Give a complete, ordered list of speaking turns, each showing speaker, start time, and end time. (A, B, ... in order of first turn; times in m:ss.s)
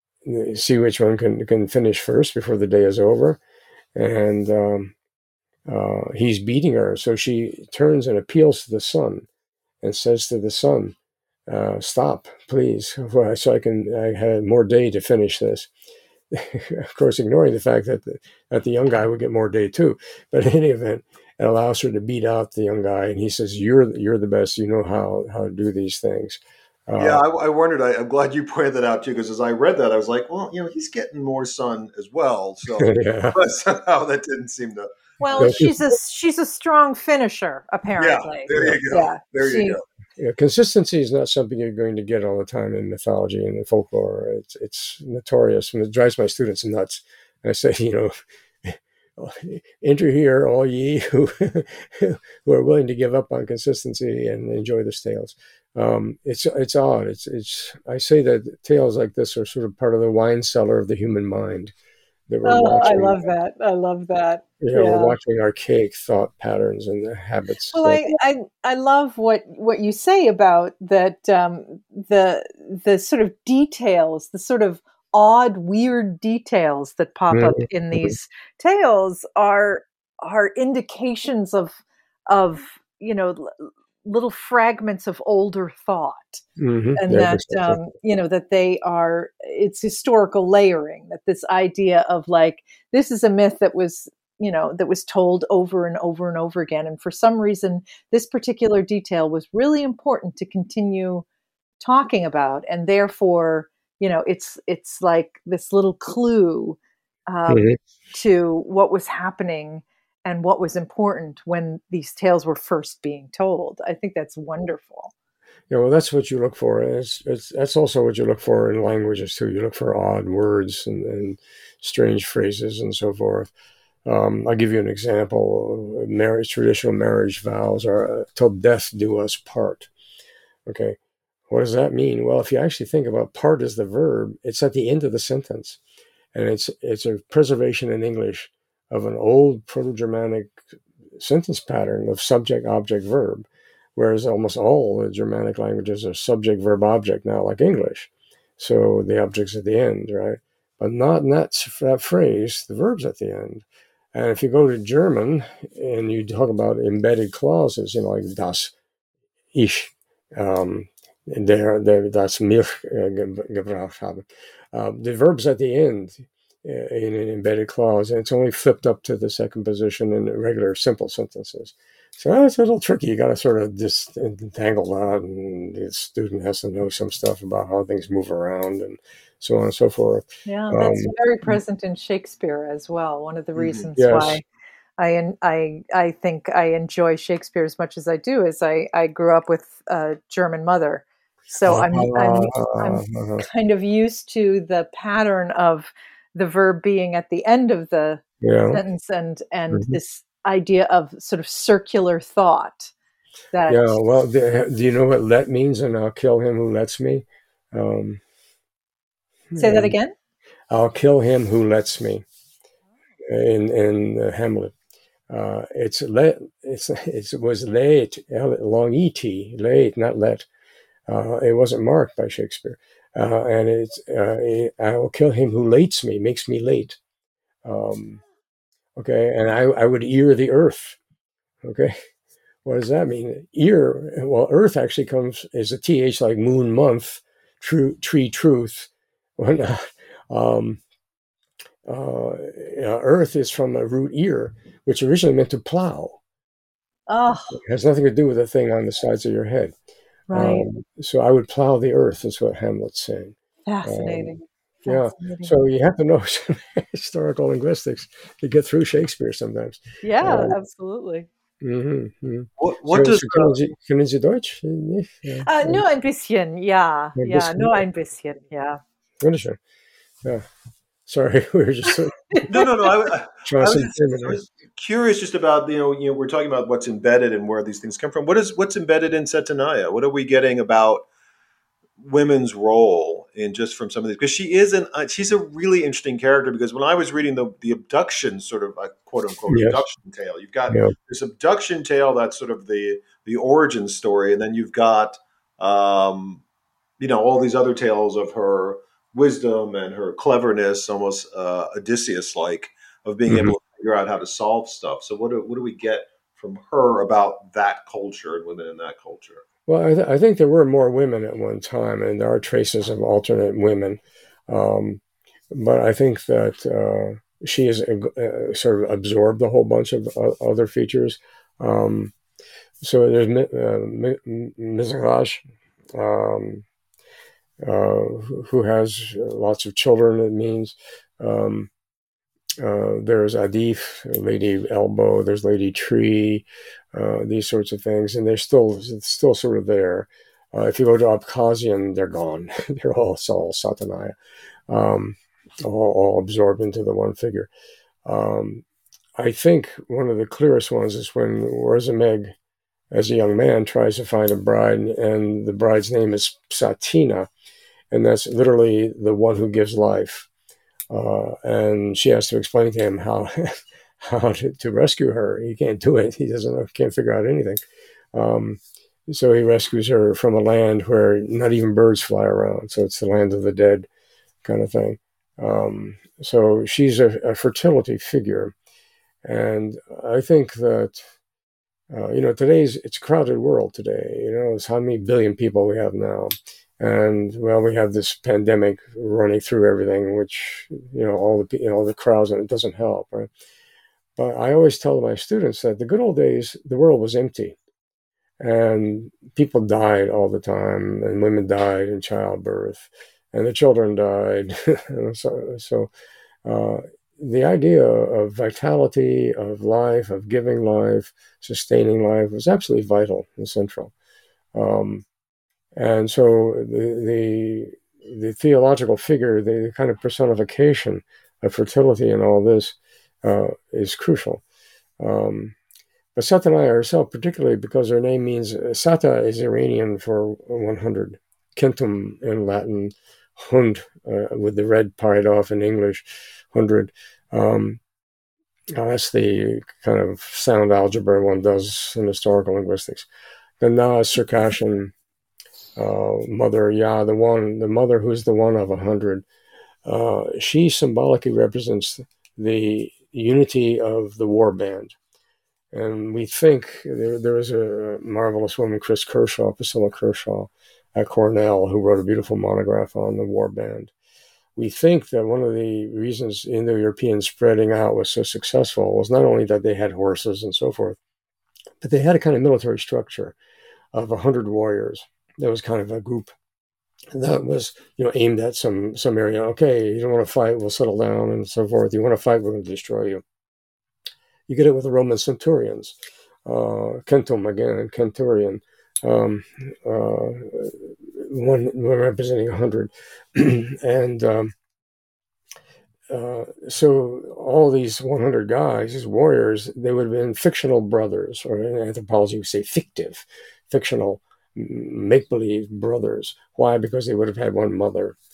0:00.2-0:03.4 A
0:03.9-0:04.9 A
0:05.7-0:09.3 A
0:09.8-0:10.9 A
0:11.5-0:15.7 A
0:16.3-0:27.2 A
0:27.0-0:35.6 B
0:32.8-0:33.4 A
0:35.2-0:39.8 C
0:35.4-0:35.7 A
0:38.0-0:39.8 B
0:38.5-0:38.8 A
0:40.2-1:01.7 A
1:02.3-1:03.2 A
1:02.4-1:05.2 C
1:04.6-1:08.0 A
1:07.7-1:26.4 C
1:17.3-1:18.2 A
1:26.6-1:27.8 A
1:27.0-1:41.2 C
1:41.8-1:55.1 C
1:47.5-1:47.8 A
1:55.7-2:03.5 A
2:04.0-2:09.9 A
2:10.7-2:11.0 A
2:11.5-2:15.8 A
2:16.3-2:20.6 A
2:21.2-2:38.7 A
2:39.5-3:01.5 A
3:00.4-3:04.4 C
3:03.6-3:03.8 B
3:04.0-3:04.4 A
3:05.0-3:22.9 C
3:11.6-3:13.4 A
3:18.4-3:18.8 A
3:19.7-3:20.0 A
3:23.5-3:24.0 C
3:23.7-3:28.2 A
3:29.5-3:29.9 A
3:29.6-3:30.1 C
3:30.7-3:32.2 A
3:33.2-3:34.7 A
3:35.3-3:40.5 A
3:41.1-3:47.0 A
3:47.6-3:48.2 A
3:49.0-3:51.0 A
3:51.6-3:52.0 A
3:52.6-4:00.8 A
4:01.8-4:06.2 A
4:07.1-4:07.6 C
4:07.5-4:09.7 A
4:10.3-4:10.6 C
4:10.3-4:14.3 A
4:13.7-4:15.6 C
4:14.8-4:20.6 A
4:20.0-4:21.3 C
4:21.6-4:25.8 A
4:22.6-4:23.5 B
4:25.4-4:28.8 C
4:27.2-4:27.8 A
4:29.2-4:29.6 A
4:31.0-4:32.5 A
4:32.3-4:32.7 C
4:32.5-4:41.0 B
4:33.4-4:34.4 A
4:42.0-4:56.4 B
4:49.5-4:49.8 A
4:57.0-5:09.4 B
5:03.3-5:03.5 A
5:09.7-5:22.1 A
5:22.8-5:25.4 A
5:25.9-5:26.6 A
5:27.6-5:31.7 A
5:32.6-5:44.2 A
5:44.7-5:47.5 A
5:48.0-5:48.6 A
5:49.2-5:52.3 A
5:52.9-5:57.3 A
5:57.9-6:00.3 A
6:00.9-6:07.6 A
6:08.1-6:13.9 A
6:14.4-6:18.5 A
6:19.2-6:21.1 A
6:21.9-6:33.3 A
6:34.2-6:37.6 A
6:38.4-6:45.9 A
6:46.4-6:53.9 A
6:54.5-6:55.0 A
6:55.7-7:04.4 A
7:05.0-7:05.6 A
7:06.2-7:17.8 A
7:18.7-7:23.1 A
7:23.6-7:24.9 A
7:25.8-7:29.2 A
7:29.8-7:35.0 A
7:35.7-7:43.9 A
7:44.6-7:51.0 A
7:51.8-7:53.4 A
7:53.9-7:56.3 A
7:57.1-8:03.2 A
8:04.5-8:14.5 A
8:16.1-8:28.2 A